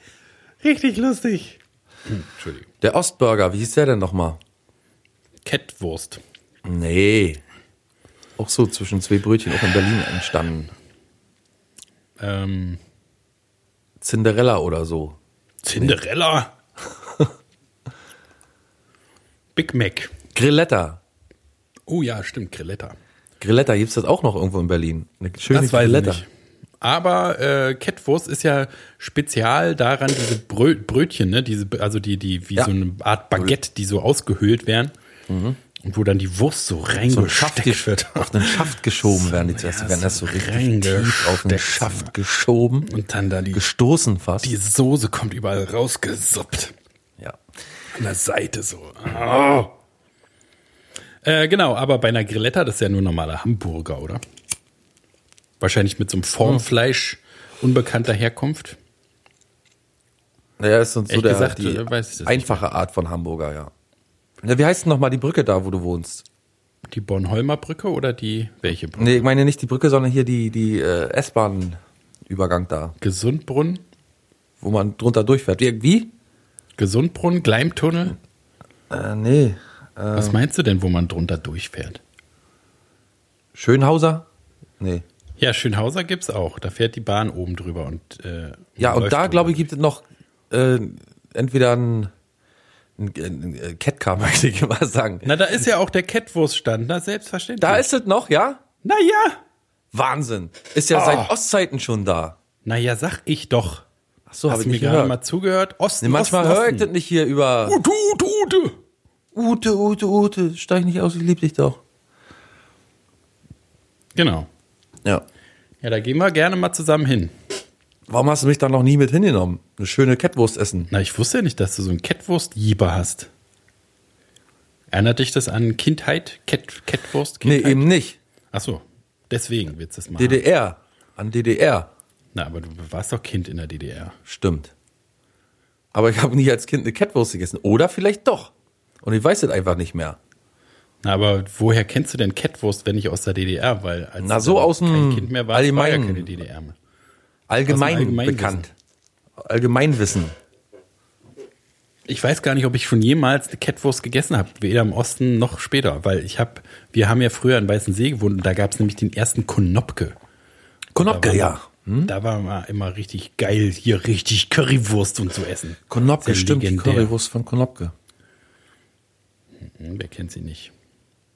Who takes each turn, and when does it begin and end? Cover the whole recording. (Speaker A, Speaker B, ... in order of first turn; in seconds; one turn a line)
Speaker A: 0.6-1.6
Speaker A: 2.1-2.7
Speaker B: 2.8-4.4
Speaker A: 5.5-6.2
Speaker B: 6.7-7.4
Speaker B: 8.4-10.7
Speaker A: 12.2-12.8
Speaker B: 14.0-15.2
Speaker A: 15.6-16.5
Speaker A: 19.6-20.1
Speaker B: 20.4-21.0
Speaker A: 21.9-23.0
Speaker B: 23.4-26.2
Speaker A: 25.5-26.3
Speaker A: 26.8-34.9
Speaker B: 35.3-35.6
Speaker A: 35.8-42.1
Speaker B: 37.1-42.9
Speaker A: 42.9-43.6
Speaker B: 43.5-44.5
Speaker A: 44.4-46.7
Speaker A: 47.9-49.7
Speaker A: 51.2-54.2
Speaker A: 55.6-58.8
Speaker B: 60.6-63.7
Speaker A: 61.1-62.6
Speaker B: 64.4-66.2
Speaker A: 66.9-69.3
Speaker B: 69.0-73.0
Speaker A: 73.0-73.8
Speaker B: 74.6-76.1
Speaker A: 76.8-78.2
Speaker B: 78.9-80.4
Speaker A: 80.2-82.0
Speaker B: 83.5-84.3
Speaker A: 85.4-89.7
Speaker B: 88.8-92.1
Speaker B: 93.0-95.3
Speaker A: 95.2-97.9
Speaker B: 97.6-98.6
Speaker A: 98.8-99.4
Speaker B: 99.9-102.4
Speaker A: 100.9-101.3
Speaker A: 102.7-103.8
Speaker B: 104.3-105.2
Speaker A: 104.5-106.9
Speaker B: 106.0-107.8
Speaker A: 107.7-108.8
Speaker B: 109.3-111.8
Speaker A: 114.2-114.5
Speaker A: 115.8-117.3
Speaker B: 118.1-120.9
Speaker A: 120.9-123.3
Speaker A: 124.9-127.9
Speaker B: 127.4-128.2
Speaker A: 128.5-130.4
Speaker B: 130.2-131.9
Speaker A: 132.3-134.2
Speaker B: 134.3-134.7
Speaker B: 135.9-140.2
Speaker A: 141.0-146.8
Speaker B: 144.2-146.3
Speaker B: 147.5-148.7
Speaker A: 147.7-148.7
Speaker B: 149.4-150.3
Speaker A: 152.1-160.2
Speaker B: 160.9-162.1
Speaker A: 161.0-167.1
Speaker B: 165.9-167.9
Speaker A: 169.6-170.7